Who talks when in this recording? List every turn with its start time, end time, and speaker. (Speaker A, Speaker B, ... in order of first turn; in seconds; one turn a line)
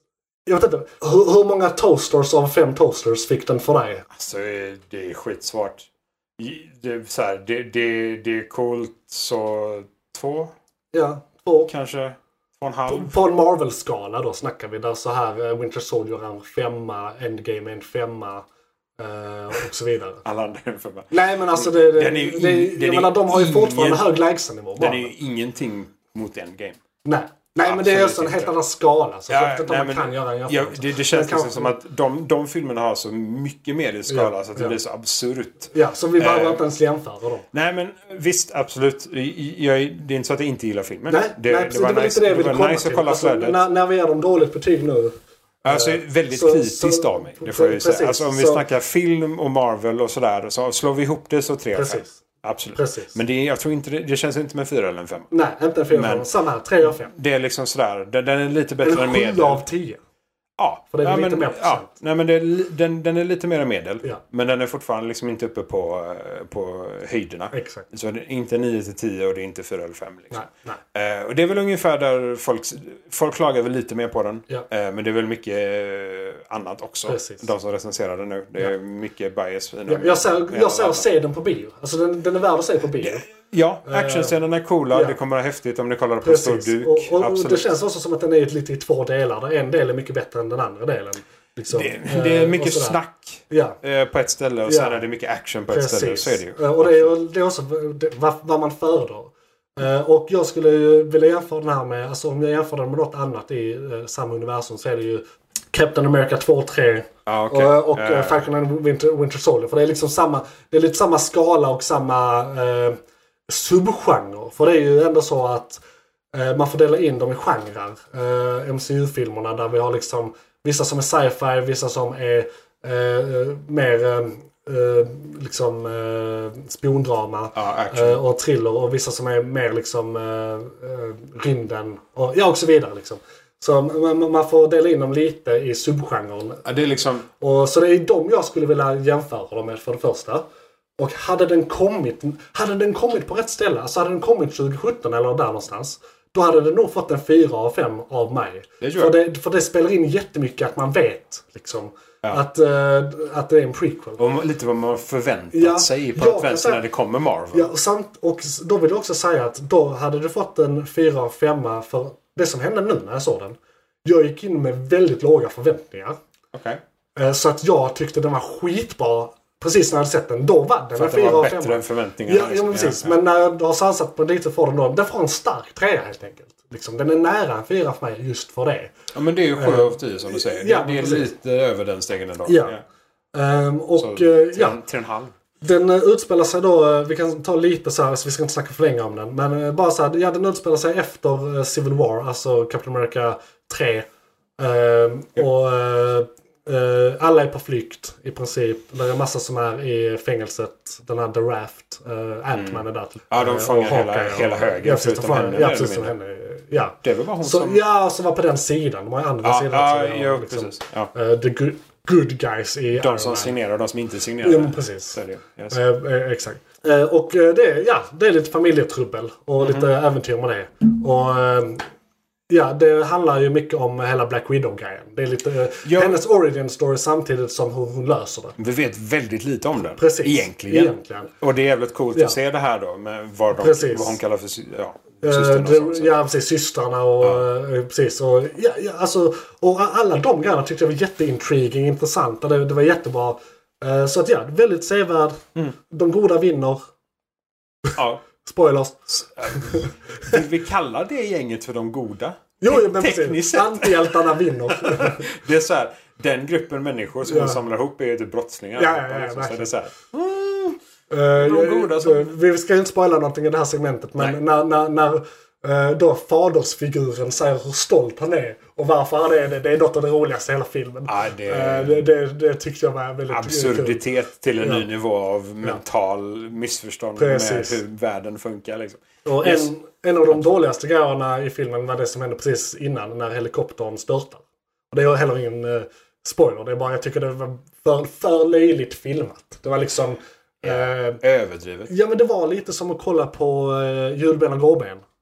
Speaker A: 0.5-4.0
Speaker B: 4.1-10.5
Speaker A: 10.9-11.7
Speaker B: 11.7-13.1
Speaker A: 12.9-18.4
Speaker A: 19.0-20.2
Speaker B: 20.2-24.1
Speaker A: 21.1-25.1
Speaker B: 24.8-26.8
Speaker A: 27.0-31.8
Speaker B: 27.6-28.5
Speaker B: 29.3-36.6
Speaker A: 34.1-34.8
Speaker A: 35.7-37.5
Speaker B: 37.5-43.6
Speaker A: 41.1-45.1
Speaker B: 45.6-55.3
Speaker A: 45.7-48.6
Speaker A: 51.7-52.2
Speaker A: 52.7-53.1
Speaker A: 55.3-57.1
Speaker B: 55.9-56.3
Speaker B: 56.8-59.6
Speaker A: 58.8-60.0
Speaker B: 60.6-81.0
Speaker A: 60.9-61.9
Speaker A: 67.5-67.8
Speaker A: 70.3-70.8
Speaker A: 77.1-77.5
Speaker A: 79.9-83.3
Speaker B: 83.0-87.7
Speaker A: 83.9-84.4
Speaker A: 84.9-85.2
Speaker A: 86.2-93.0
Speaker B: 91.7-97.1
Speaker A: 93.5-93.8
Speaker A: 94.7-95.0
Speaker A: 95.7-115.8
Speaker B: 107.3-108.4
Speaker A: 116.3-136.7
Speaker B: 127.5-128.2
Speaker B: 136.7-137.3
Speaker A: 137.4-140.4
Speaker A: 141.0-154.2
Speaker B: 148.8-149.2
Speaker B: 154.2-157.7
Speaker A: 155.5-156.8
Speaker A: 157.5-166.2
Speaker B: 166.5-166.8
Speaker A: 167.2-178.9
Speaker B: 171.0-173.2
Speaker B: 179.1-182.8
Speaker A: 179.6-181.3
Speaker A: 182.4-182.8
Speaker A: 183.3-184.8
Speaker B: 184.0-185.3
Speaker A: 185.6-194.1
Speaker A: 194.6-213.6
Speaker B: 202.6-206.1
Speaker B: 207.0-207.8
Speaker B: 209.4-211.1
Speaker B: 213.0-215.8
Speaker A: 214.4-215.2
Speaker A: 215.7-221.9
Speaker B: 219.6-219.9
Speaker A: 222.5-228.6
Speaker B: 225.8-226.2
Speaker B: 228.6-236.1
Speaker A: 230.0-231.3
Speaker A: 233.6-234.2
Speaker A: 235.2-246.8
Speaker B: 237.2-237.5
Speaker B: 248.0-248.2
Speaker A: 248.4-250.4
Speaker B: 249.1-260.8
Speaker A: 252.6-255.2
Speaker A: 257.2-257.6
Speaker A: 258.8-259.7
Speaker A: 261.1-274.0
Speaker B: 261.4-262.3
Speaker B: 271.1-272.1
Speaker B: 273.3-279.7
Speaker A: 274.6-274.9
Speaker A: 277.2-277.8
Speaker A: 279.2-291.2
Speaker B: 280.3-280.6
Speaker B: 290.6-291.9
Speaker A: 291.9-295.0